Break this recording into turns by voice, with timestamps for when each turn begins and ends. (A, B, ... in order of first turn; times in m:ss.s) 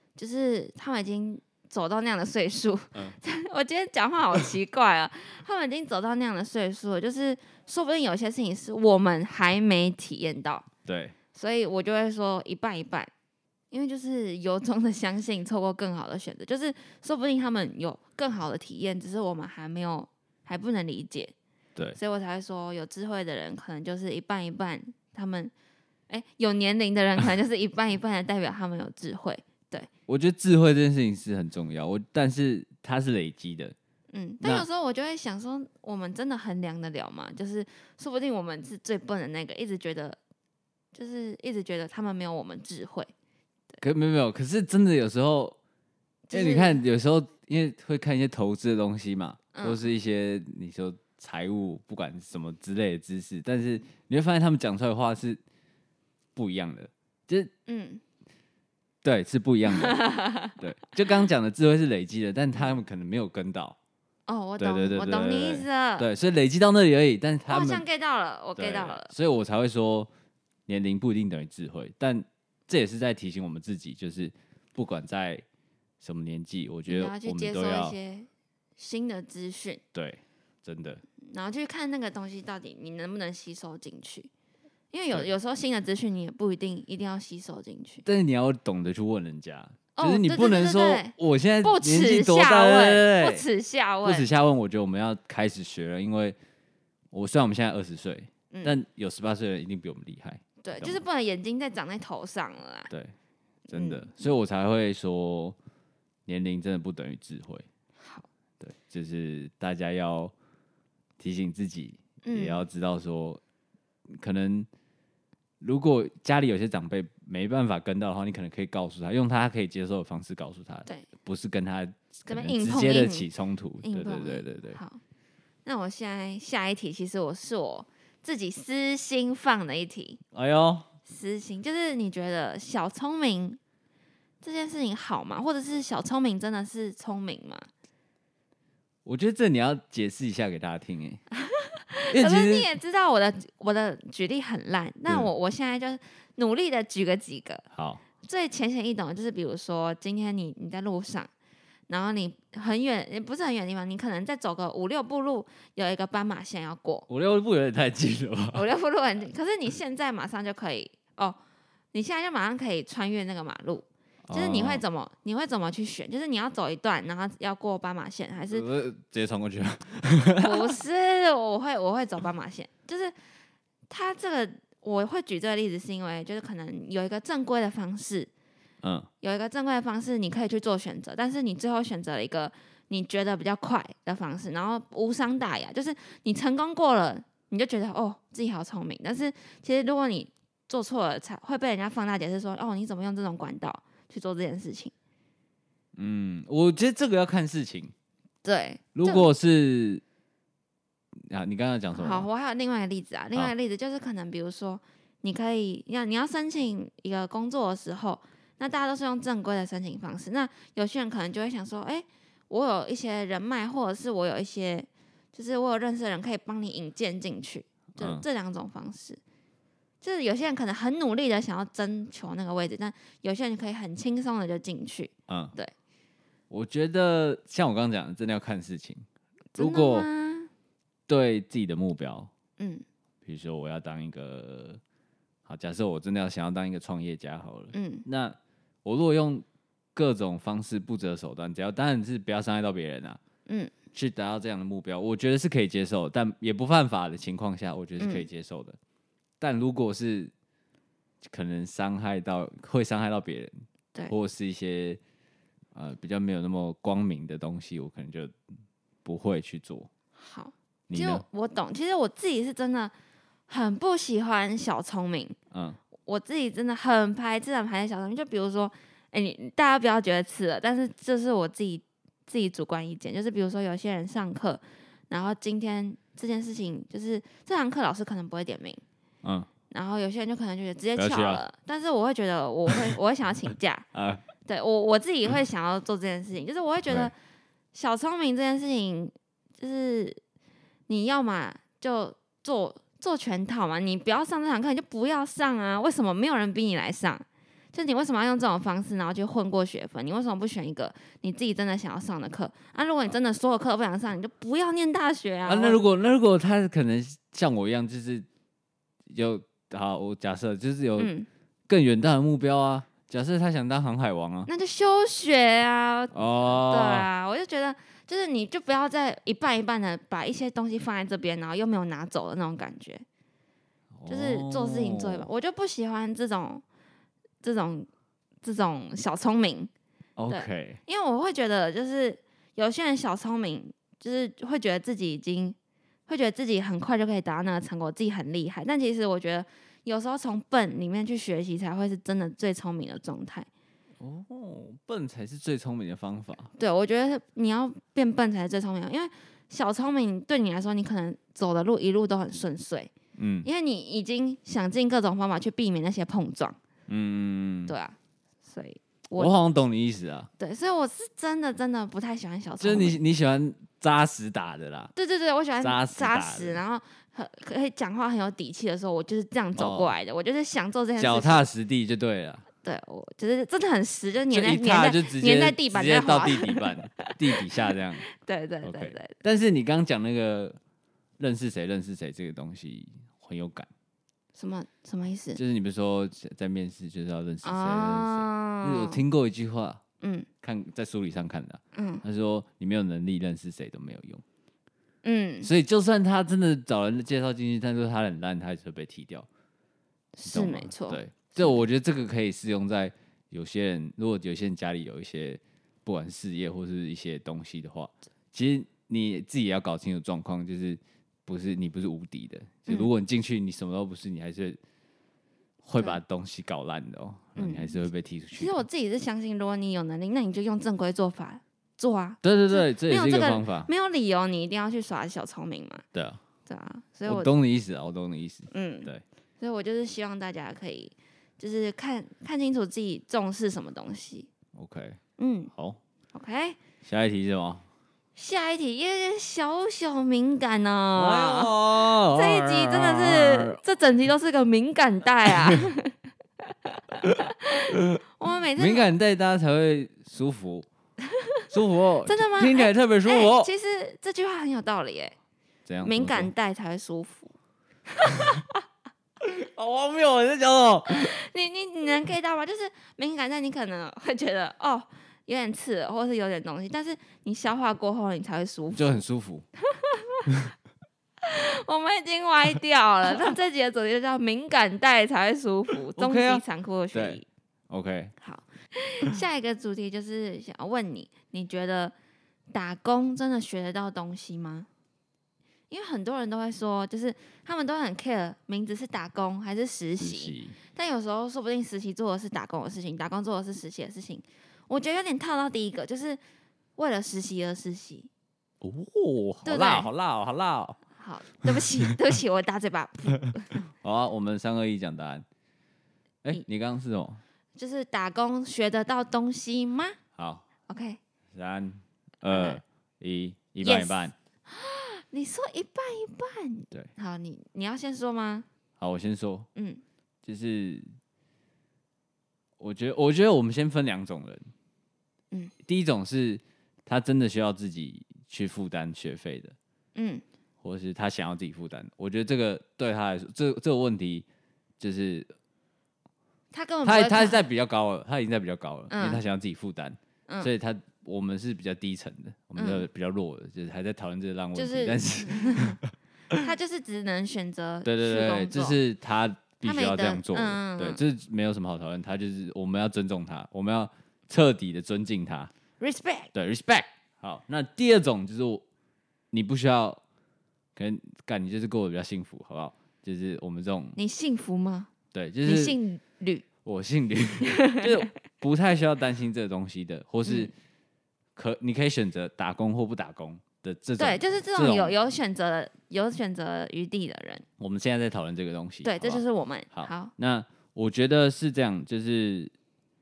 0:00.2-0:10.7 A
0:10.9-0:11.2 B
0:11.3-0:13.1 A
0:13.7-0:21.3 A
0:22.0-0:25.5 A
0:26.1-0:29.9 A
0:30.1-0:33.8 B
0:34.1-0:40.2 A
0:34.4-0:34.7 B
0:40.9-0:43.1 A
0:43.8-0:45.6 B
0:46.3-0:46.8 A
0:46.3-0:55.4 B
0:49.5-0:49.8 A
0:56.4-0:57.5 B
0:57.7-0:58.0 A
0:59.0-1:03.8 B
0:59.7-1:00.6 A
1:04.3-1:06.1 A
1:04.6-1:07.8 B
1:07.5-1:09.1 A
1:08.6-1:10.1 B
1:10.7-1:15.4 B
1:16.0-1:18.0 B
1:16.9-1:19.8 A
1:19.9-1:21.0 B
1:21.3-1:24.3 A
1:24.9-1:28.1 A
1:28.0-1:33.4 B
1:30.0-1:34.3 A
1:34.0-1:36.4 B
1:37.1-1:41.0 B
1:38.5-1:38.8 A
1:40.6-1:42.9 A
1:43.7-1:44.1 A
1:43.7-1:45.6 B
1:46.3-1:47.7 B
1:48.0-1:48.3 A
1:48.6-1:50.3 B
1:51.2-1:53.4 B
1:52.2-1:52.6 A
1:54.1-1:54.7 B
1:55.6-2:04.8 B
2:02.3-2:03.3 A
2:03.8-2:05.0 A
2:05.6-2:10.2 A
2:10.3-2:10.9 B
2:11.1-2:13.6 A
2:14.4-2:17.7 A
2:19.0-2:21.2 B
2:21.4-2:27.6 A
2:22.1-2:22.7 B
2:27.7-2:28.0 B
2:28.2-2:31.3 A
2:31.9-2:37.1 A
2:37.1-2:38.6 B
2:38.5-2:41.4 A
2:41.9-2:48.7 A
2:44.3-2:44.8 B
2:48.5-2:50.8 B
2:50.4-2:53.1 A
2:53.9-2:58.3 A
2:58.8-2:59.1 B
2:59.2-3:14.9 A
3:16.0-3:17.9 B
3:18.4-3:19.3 A
3:19.0-3:20.0 B
3:21.3-3:22.3 B
3:21.9-3:39.2 A
3:38.0-3:38.2 B
3:40.0-3:45.7 A
3:45.3-3:45.5 B
3:46.5-3:49.0 B
3:49.6-3:50.1 B
3:49.6-3:50.5 A
3:51.1-3:52.3 B
3:52.6-3:52.8 A
3:53.2-3:54.8 B
3:55.4-4:03.2 B
3:57.7-3:58.0 A
4:03.5-4:03.7 A
4:03.9-4:08.8 B
4:08.0-4:08.3 A
4:09.4-4:10.3 B
4:11.2-4:13.5 B
4:14.1-4:15.0 B
4:15.7-4:18.3 B
4:19.0-4:19.9 B
4:20.2-4:22.9 A
4:20.9-4:21.2 B
4:23.5-4:25.4 A
4:25.5-4:25.8 B
4:26.0-4:38.8 A
4:39.2-4:39.5 B
4:39.7-4:43.9 A
4:41.0-4:41.4 B
4:43.9-4:44.2 B
4:44.4-4:47.1 A
4:47.7-4:50.2 A
4:50.9-5:05.8 A
5:05.5-5:08.3 B
5:09.1-5:11.1 B
5:11.0-5:11.3 A
5:11.7-5:14.5 B
5:14.5-5:23.0 A
5:16.1-5:17.1 B
5:24.0-5:25.3 B
5:24.1-5:26.6 A
5:27.4-5:27.9 A
5:28.4-5:29.7 A
5:30.2-5:30.8 B
5:30.3-5:35.6 A
5:36.1-5:43.5 A
5:44.0-5:46.5 B
5:46.6-5:52.9 A
5:53.2-5:53.5 B
5:53.4-5:56.6 A
5:56.9-5:57.8 B
5:57.7-5:59.3 A
5:59.2-6:00.3 B
6:00.4-6:03.0 A
6:02.6-6:04.9 B
6:05.0-6:11.4 A
6:05.6-6:06.6 B
6:09.6-6:09.9 B
6:11.0-6:12.5 B
6:12.6-6:19.2 A
6:14.3-6:18.1 B
6:18.6-6:20.6 B
6:21.2-6:23.7 B
6:24.4-6:25.4 A
6:25.4-6:29.8 B
6:27.4-6:29.0 A
6:30.0-6:30.3 A
6:30.4-6:34.2 B
6:31.7-6:32.0 A
6:35.0-6:35.5 A
6:35.4-6:39.3 B
6:40.2-6:41.6 A
6:40.3-6:54.6 B
6:55.6-6:58.6 B
6:57.4-6:57.8 A
6:58.4-7:05.8 A
7:02.2-7:03.7 B
7:05.9-7:06.2 B
7:06.5-7:07.3 A
7:07.1-7:09.0 B
7:08.5-7:08.9 A
7:09.4-7:14.3 A
7:14.5-7:15.0 B
7:15.2-7:15.5 A
7:15.5-7:15.8 B
7:16.1-7:16.6 A
7:16.8-7:17.6 B
7:18.2-7:25.9 A
7:21.0-7:23.6 B
7:26.7-7:28.9 A
7:27.0-7:28.0 B
7:28.6-7:30.7 B
7:31.5-7:33.5 B
7:32.1-7:35.2 A
7:35.7-7:36.3 B
7:35.8-7:37.3 A
7:37.9-7:38.6 A
7:39.2-7:41.1 B
7:40.9-7:49.0 A
7:48.7-7:49.5 B
7:49.7-7:50.2 A
7:51.2-7:57.3 A
7:56.0-7:58.1 B
7:58.2-8:01.9 A
8:02.5-8:04.7 A
8:05.7-8:16.2 A
8:10.0-8:10.6 B
8:16.8-8:18.1 A
8:18.6-8:20.8 B
8:19.4-8:19.9 A
8:21.0-8:23.6 A
8:21.4-8:21.9 B
8:23.8-8:25.2 B
8:26.2-8:27.2 B
8:27.6-8:30.0 A
8:30.2-8:30.4 B
8:30.7-8:31.0 A
8:31.3-8:34.1 B
8:32.2-8:32.6 A
8:33.6-8:38.5 A
8:38.8-8:39.5 B
8:39.6-8:39.8 A
8:40.2-8:40.9 B
8:42.6-8:44.5 B
8:45.6-8:49.6 B
8:50.0-8:50.2 A
8:50.6-8:54.3 B
8:54.8-8:55.3 B
8:56.5-8:57.4 A
8:56.8-9:06.4 B
8:58.9-8:59.2 A
9:02.6-9:02.9 A
9:04.6-9:05.8 A
9:06.4-9:08.8 A
9:07.8-9:15.5 B
9:09.6-9:11.0 A
9:15.8-9:16.3 A
9:16.3-9:18.6 B
9:19.3-9:20.0 B
9:20.8-9:24.0 B
9:24.0-9:24.9 A
9:25.1-9:25.8 B
9:25.4-9:26.5 A
9:26.6-9:30.5 B
9:27.5-9:27.9 A
9:30.3-9:30.5 A
9:31.4-9:35.0 B
9:34.0-9:37.4 A
9:37.6-9:42.5 B
9:38.8-9:40.1 A